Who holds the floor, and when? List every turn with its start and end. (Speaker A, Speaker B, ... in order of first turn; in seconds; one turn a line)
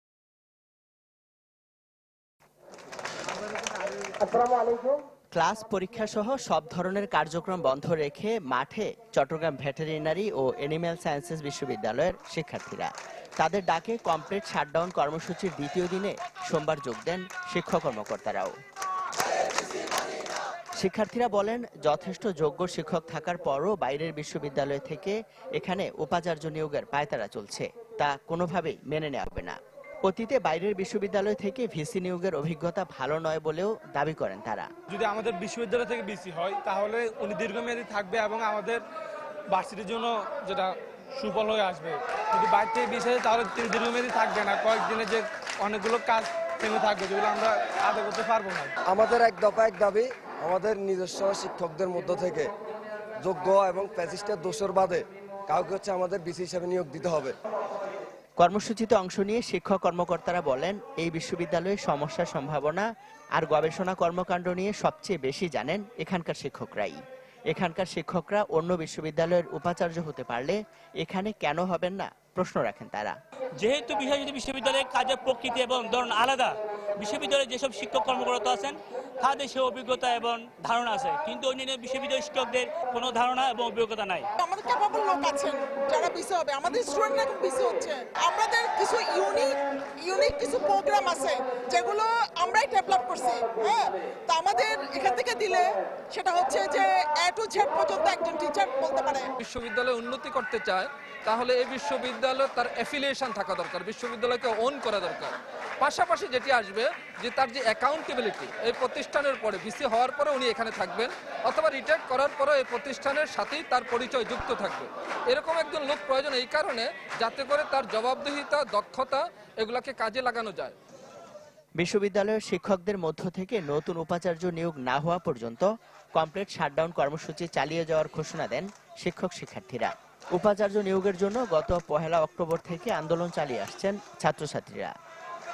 Speaker A: 5.3-18.5
Speaker A: 20.8-34.7
Speaker B: 34.9-38.8
Speaker B: 39.5-48.7
Speaker C: 48.9-52.5
Speaker C: 53.2-57.3
Speaker A: 58.4-67.0
Speaker A: 67.5-73.2
Speaker D: 73.6-84.3
Speaker E: 84.4-99.3
Speaker F: 99.4-120.7
Speaker A: 121.8-134.9